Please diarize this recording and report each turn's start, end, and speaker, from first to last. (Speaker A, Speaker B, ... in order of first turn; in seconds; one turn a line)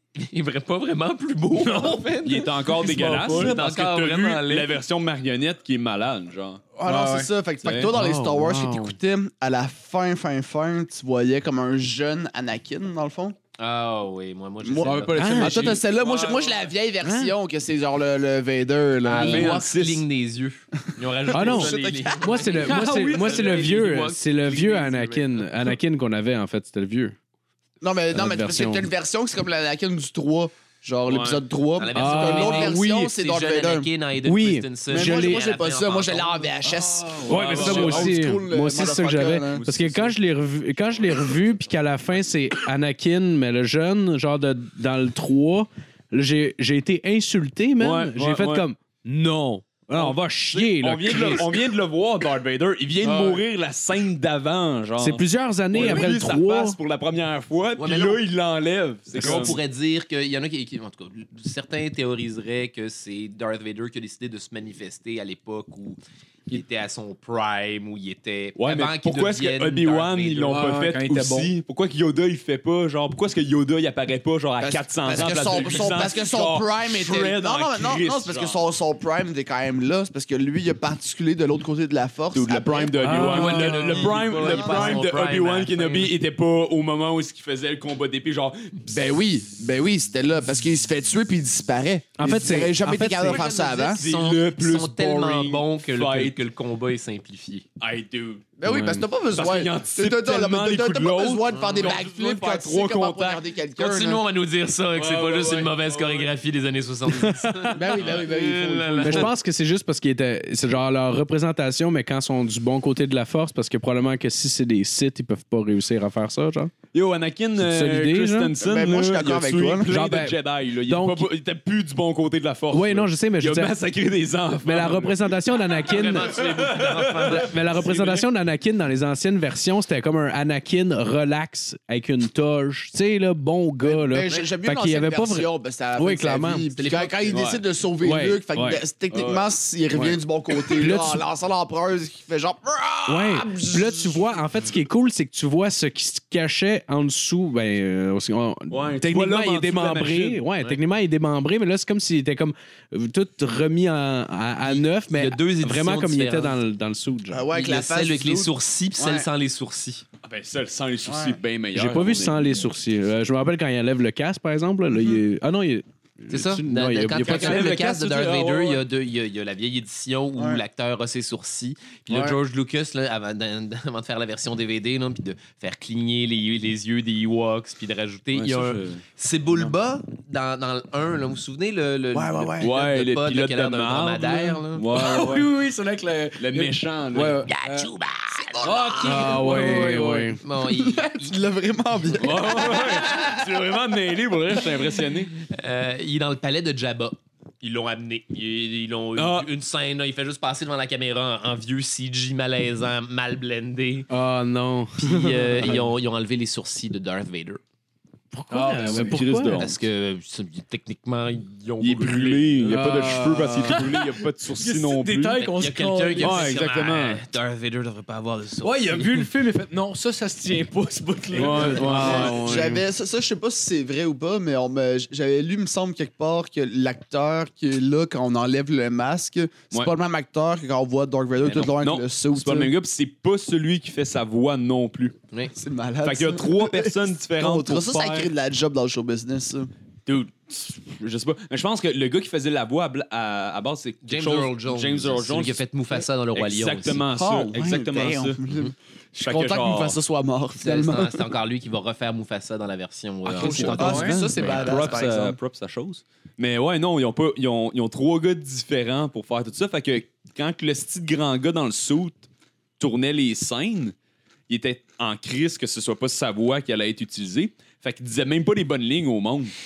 Speaker A: 0.1-4.7
Speaker B: 1.6-2.0
Speaker C: 2.2-6.6
Speaker B: 2.7-3.6
Speaker D: 6.8-13.3
Speaker B: 6.8-7.3
Speaker C: 7.6-7.9
Speaker E: 7.7-9.0
Speaker A: 13.6-15.5
Speaker D: 14.6-19.6
Speaker B: 14.8-15.9
Speaker E: 15.2-15.8
Speaker E: 17.0-17.3
Speaker A: 19.0-25.6
Speaker C: 19.1-20.0
Speaker D: 21.3-22.5
Speaker E: 21.3-27.2
Speaker B: 22.6-23.8
Speaker D: 27.8-33.9
Speaker E: 28.1-28.9
Speaker C: 31.1-31.4
Speaker A: 31.8-36.7
Speaker E: 31.9-33.1
Speaker E: 34.2-35.4
Speaker D: 34.9-39.6
Speaker C: 37.1-38.2
Speaker E: 37.3-51.5
Speaker C: 39.5-40.2
Speaker C: 47.8-48.7
Speaker C: 49.9-59.6
Speaker B: 53.0-53.4
Speaker E: 55.0-56.8
Speaker A: 57.8-58.2
Speaker A: 59.1-70.7
Speaker C: 68.5-78.6
Speaker B: 70.5-71.5
Speaker D: 74.6-85.1
Speaker C: 82.3-89.0
Speaker E: 83.0-83.9
Speaker A: 83.2-86.1
Speaker D: 88.9-94.0
Speaker E: 92.2-93.4
Speaker A: 93.2-97.7
Speaker C: 93.9-96.4
Speaker C: 97.8-98.4
Speaker D: 98.6-104.2
Speaker B: 98.7-99.0
Speaker C: 99.3-103.4
Speaker A: 101.5-102.0
Speaker A: 103.8-109.3
Speaker C: 105.0-106.3
Speaker E: 107.2-107.8
Speaker D: 107.7-109.3
Speaker C: 108.0-108.3
Speaker E: 109.0-116.7
Speaker C: 116.9-125.4
Speaker E: 117.5-118.5
Speaker D: 118.6-119.9
Speaker E: 119.9-121.3
Speaker E: 122.7-123.8
Speaker E: 124.6-126.4
Speaker A: 125.8-127.9
Speaker C: 126.3-128.2
Speaker E: 127.2-136.7
Speaker D: 133.8-144.2
Speaker A: 136.8-137.4
Speaker C: 137.3-137.6
Speaker E: 138.0-138.8
Speaker C: 139.1-139.5
Speaker E: 140.8-141.2
Speaker E: 143.1-157.4
Speaker C: 148.7-150.4
Speaker A: 154.6-156.6
Speaker D: 157.3-159.3
Speaker A: 157.5-160.0
Speaker C: 160.2-162.6
Speaker D: 161.1-161.4
Speaker E: 161.7-167.7
Speaker A: 166.3-184.9
Speaker C: 167.1-168.8
Speaker D: 170.4-170.6
Speaker D: 172.1-172.4
Speaker C: 178.3-179.0
Speaker D: 182.1-182.7
Speaker C: 182.6-185.5
Speaker B: 184.9-187.9
Speaker C: 186.4-187.4
Speaker A: 187.5-191.4
Speaker D: 188.5-188.8
Speaker B: 188.6-190.4
Speaker E: 189.0-190.4
Speaker D: 190.6-193.5
Speaker A: 192.0-193.2
Speaker C: 192.2-195.3
Speaker A: 195.4-204.1
Speaker C: 199.2-199.5
Speaker E: 204.1-205.8
Speaker A: 205.0-207.6
Speaker E: 208.3-209.6
Speaker B: 208.5-209.3
Speaker C: 208.8-209.7
Speaker A: 209.6-212.5
Speaker C: 211.8-215.4
Speaker B: 212.6-216.5
Speaker E: 212.7-213.8
Speaker A: 215.4-219.3
Speaker C: 216.2-217.2
Speaker B: 218.6-222.4
Speaker C: 221.3-222.6
Speaker E: 221.7-222.8
Speaker D: 221.9-232.7
Speaker A: 231.4-231.7
Speaker C: 231.6-235.2
Speaker D: 235.5-239.7
Speaker C: 236.0-238.3
Speaker C: 240.1-245.6
Speaker A: 244.0-247.0
Speaker C: 246.3-248.4
Speaker D: 247.1-251.2
Speaker C: 249.1-250.0
Speaker A: 250.6-255.0
Speaker B: 253.2-254.2
Speaker D: 253.3-255.4
Speaker C: 253.8-262.3
Speaker C: 262.8-263.9
Speaker C: 264.5-269.5